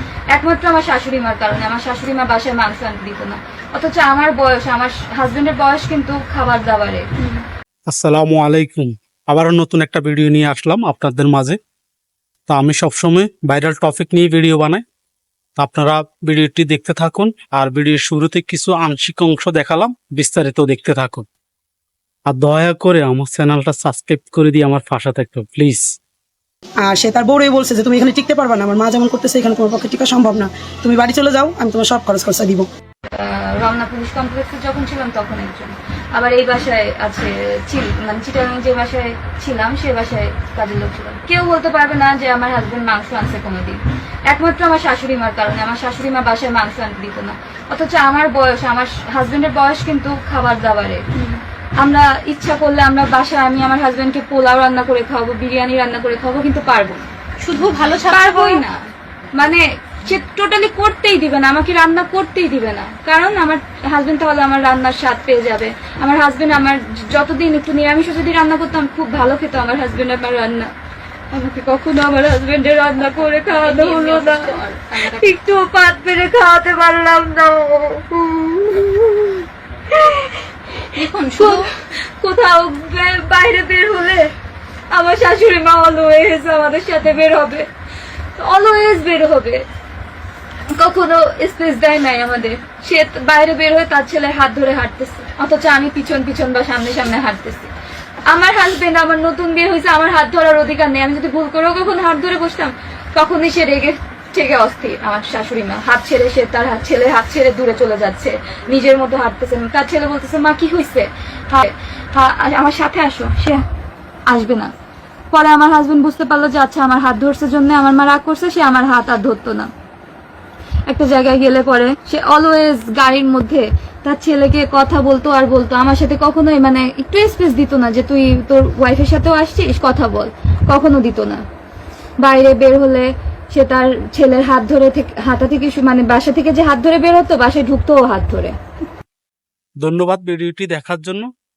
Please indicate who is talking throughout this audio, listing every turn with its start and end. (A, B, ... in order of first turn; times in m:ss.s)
0:00.3-0:07.1 A
0:07.9-0:11.6 B
0:12.5-0:14.8 B
0:15.6-0:21.3 B
0:22.3-0:25.9 B
0:26.8-0:32.7 C
0:33.1-0:51.1 A
0:51.8-0:57.1 A
0:57.4-0:58.6 D
0:58.1-0:58.8 A
0:59.4-1:10.7 A
1:11.3-1:20.4 A
1:13.0-1:15.3 D
1:20.9-1:21.7 D
1:21.3-1:21.7 A
1:22.2-1:24.3 A
1:24.9-1:27.7 A
1:28.4-1:29.6 A
1:30.7-1:37.7 A
1:38.3-1:53.6 A
1:54.3-1:54.7 A
1:55.3-1:59.7 A
2:00.9-2:11.4 A
2:12.2-2:18.6 A
2:19.8-2:21.3 B